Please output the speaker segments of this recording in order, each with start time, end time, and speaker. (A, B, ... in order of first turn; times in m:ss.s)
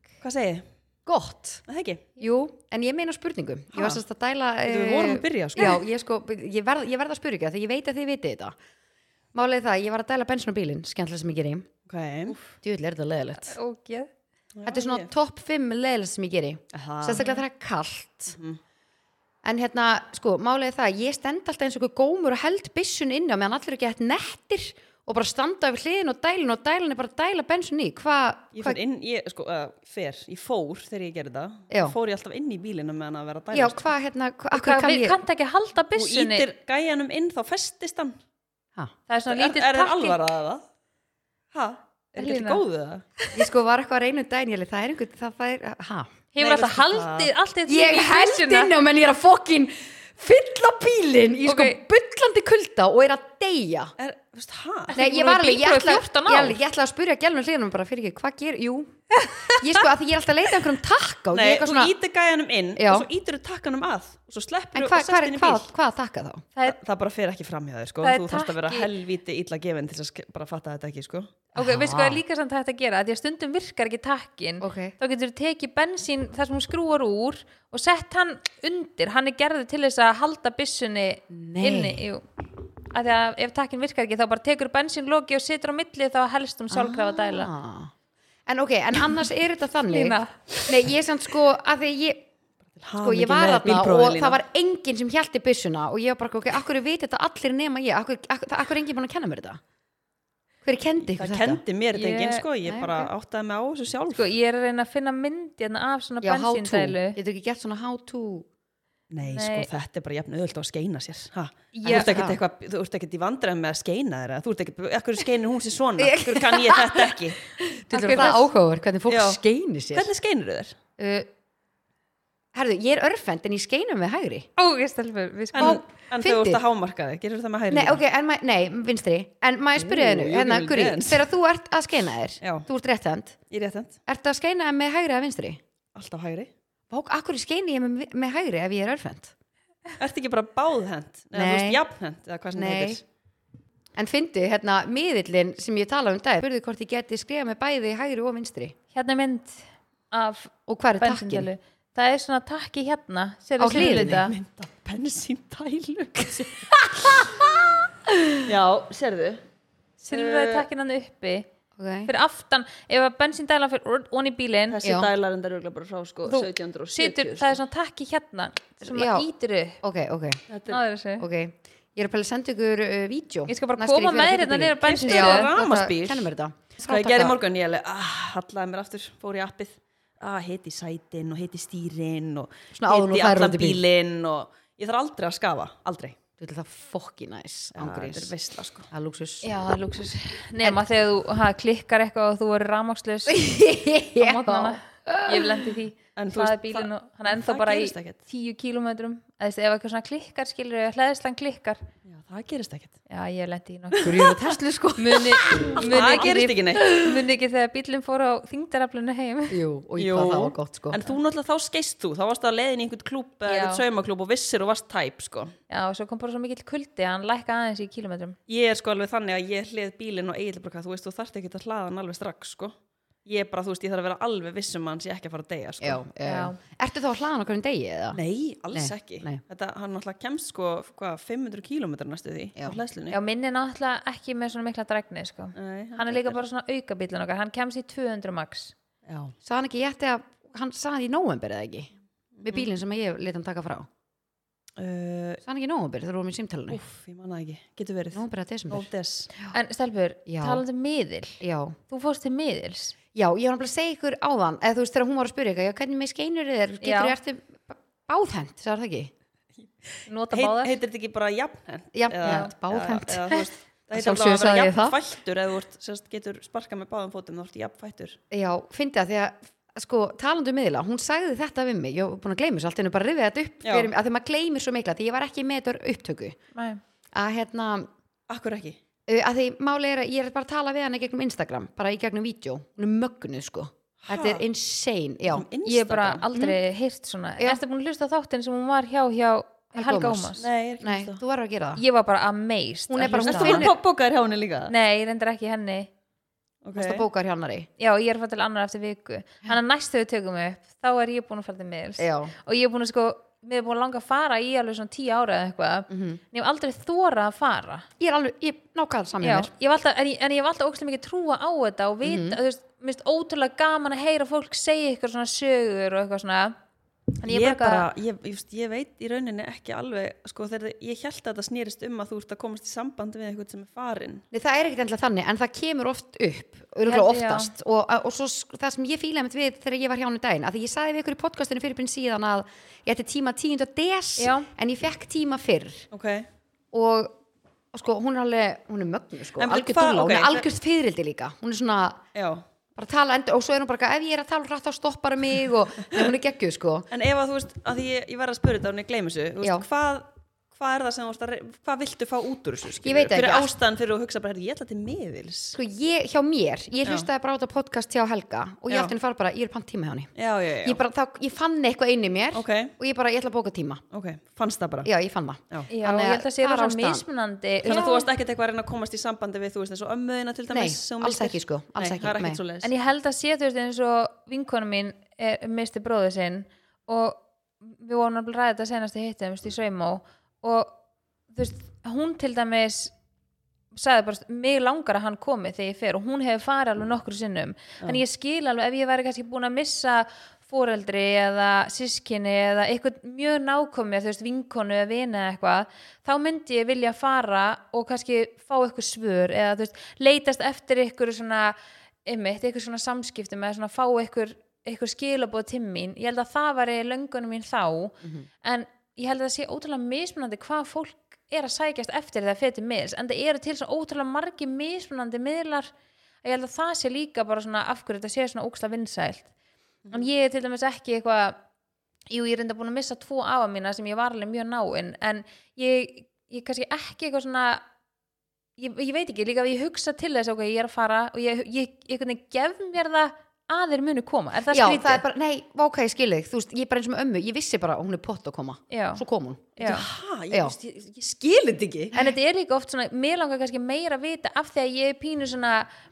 0:00.2-0:00.6 A
0:01.0-0:01.6 B
0:01.7-0:02.1 A
0:02.2-0:08.6 B
0:03.7-0:04.0 A
0:04.6-0:05.8 A
0:09.3-0:11.7 B
0:11.9-0:12.4 A
0:12.4-0:13.6 B
0:13.4-0:14.1 C
0:14.5-0:15.1 A
0:14.6-0:18.4 B
0:16.7-0:17.2 A
0:17.2-0:17.4 C
0:19.4-0:28.8 B
0:28.5-0:33.8 A
0:31.7-0:32.0 B
0:33.5-0:35.2 B
0:34.5-0:36.5 C
0:35.9-0:38.1 A
0:39.1-0:40.2 C
0:39.3-0:40.6 A
0:41.5-0:43.0 A
0:42.2-0:42.6 C
0:43.3-0:46.1 B
0:46.3-0:48.7 C
0:46.4-0:47.3 A
0:47.7-0:53.9 B
0:51.4-0:51.8 C
0:54.0-0:55.0 A
0:54.9-0:56.6 C
0:54.9-0:58.9 B
0:59.1-0:59.8 C
0:59.5-1:01.9 B
1:01.3-1:05.7 A
1:02.8-1:03.1 B
1:04.7-1:06.4 B
1:06.6-1:11.3 A
1:08.0-1:08.9 C
1:11.5-1:22.2 C
1:11.6-1:12.2 B
1:14.6-1:14.9 B
1:21.3-1:22.0 B
1:22.8-1:27.5 C
1:26.7-1:27.9 B
1:28.5-1:32.2 B
1:29.9-1:30.4 C
1:32.8-1:34.4 A
1:33.0-1:39.6 B
1:40.6-1:41.6 B
1:41.1-1:44.3 A
1:41.9-1:42.4 C
1:42.6-1:43.1 B
1:44.1-1:47.2 C
1:46.2-1:48.5 B
1:49.1-1:57.4 A
1:49.2-1:49.7 C
1:51.7-1:52.1 C
1:51.8-1:52.4 B
1:56.0-2:00.1 B
1:57.9-1:58.4 C
1:59.1-1:59.4 A
1:59.9-2:00.7 A
2:01.0-2:01.3 B
2:02.5-2:04.5 B
2:04.6-2:05.8 C
2:05.5-2:08.0 A
2:05.6-2:06.6 B
2:07.7-2:13.4 B
2:09.8-2:11.3 A
2:12.4-2:12.7 A
2:13.5-2:14.0 A
2:14.1-2:15.6 B
2:15.9-2:16.5 A
2:16.9-2:19.3 B
2:20.0-2:23.0 A
2:21.3-2:21.8 B
2:22.5-2:23.0 B
2:24.0-2:28.7 B
2:28.9-2:34.3 C
2:30.7-2:31.5 B
2:33.6-2:34.2 B
2:33.7-2:37.6 A
2:37.0-2:37.4 B
2:38.4-2:39.4 A
2:40.0-2:41.4 C
2:40.1-2:40.6 A
2:41.8-2:42.1 B
2:42.0-2:44.8 C
2:44.7-2:47.6 A
2:44.8-2:45.1 B
2:46.3-2:49.8 C
2:48.8-2:49.3 B
2:49.8-2:50.4 B
2:50.5-2:50.8 A
2:50.7-2:51.3 C
2:51.2-2:57.4 B
2:53.5-2:55.5 C
2:54.8-2:56.3 A
2:56.8-3:06.2 A
3:02.7-3:03.8 B
3:06.4-3:08.3 B
3:07.7-3:08.9 A
3:08.9-3:09.5 B
3:09.4-3:13.4 C
3:13.3-3:15.7 B
3:14.2-3:21.8 C
3:16.2-3:18.2 A
3:22.1-3:22.9 A
3:23.1-3:24.4 C
3:24.0-3:26.4 B
3:25.0-3:29.6 C
3:25.8-3:27.2 A
3:29.5-3:31.0 B
3:30.0-3:35.5 A
3:33.4-3:33.8 C
3:35.7-3:38.4 C
3:38.5-3:42.7 A
3:43.2-3:46.0 A
3:45.8-3:48.2 B
3:46.2-3:46.6 C
3:48.1-3:53.2 A
3:48.7-3:49.4 B
3:53.1-3:58.7 C
3:55.6-3:56.4 A
3:59.0-3:59.3 A
3:59.4-4:01.9 B
4:02.4-4:02.7 A
4:02.4-4:03.9 B
4:04.8-4:05.4 A
4:05.4-4:06.8 B
4:06.7-4:09.3 A
4:08.1-4:08.9 B
4:09.5-4:12.9 C
4:10.3-4:10.6 B
4:11.4-4:11.8 B
4:13.1-4:19.1 B
4:16.8-4:17.2 C
4:20.1-4:20.7 C
4:20.3-4:28.2 A
4:21.9-4:25.0 B
4:22.2-4:22.5 C
4:28.3-4:36.4 B
4:33.6-4:33.9 A
4:36.5-4:36.8 C
4:37.1-4:37.9 B
4:38.3-4:38.8 A
4:39.1-4:45.5 B
4:44.0-4:44.4 A
4:45.3-4:46.2 A
4:45.6-4:50.4 C
4:46.3-4:46.6 B
4:49.7-4:51.8 B
4:50.4-4:51.2 A
4:51.7-4:53.7 C
4:52.9-4:53.7 B
4:53.1-4:54.7 A
4:54.7-4:55.9 C
4:56.6-4:57.0 A
4:56.8-4:57.7 B
4:57.8-5:07.9 C
5:02.0-5:02.3 B
5:05.9-5:06.2 B
5:08.0-5:09.5 B
5:09.2-5:16.5 C
5:12.0-5:12.4 B
5:17.2-5:17.9 C
5:17.3-5:24.2 A
5:24.3-5:35.9 B
5:26.8-5:27.5 C
5:34.2-5:34.5 C
5:35.9-5:36.3 A
5:36.7-5:37.1 B
5:37.7-5:42.0 B
5:39.4-5:40.4 A
5:42.1-5:42.4 A
5:42.8-5:46.9 B
5:46.9-5:55.6 A
5:52.8-5:53.5 B
5:55.5-6:00.1 B
6:00.2-6:00.8 A
6:00.6-6:03.8 B
6:02.3-6:02.7 A
6:03.9-6:04.9 A
6:04.8-6:07.0 B
6:05.7-6:08.1 C
6:07.6-6:12.7 A
6:10.5-6:12.4 B
6:12.6-6:20.8 C
6:21.3-6:22.9 C
6:23.7-6:55.7 C
6:56.2-6:59.3 C
6:59.9-7:01.4 C
7:02.1-7:07.6 C
7:08.6-7:15.0 C
7:14.5-7:19.5 B
7:18.7-7:19.0 C
7:19.6-7:21.9 A
7:19.6-7:19.8 C
7:20.3-7:20.6 B
7:21.9-7:25.7 C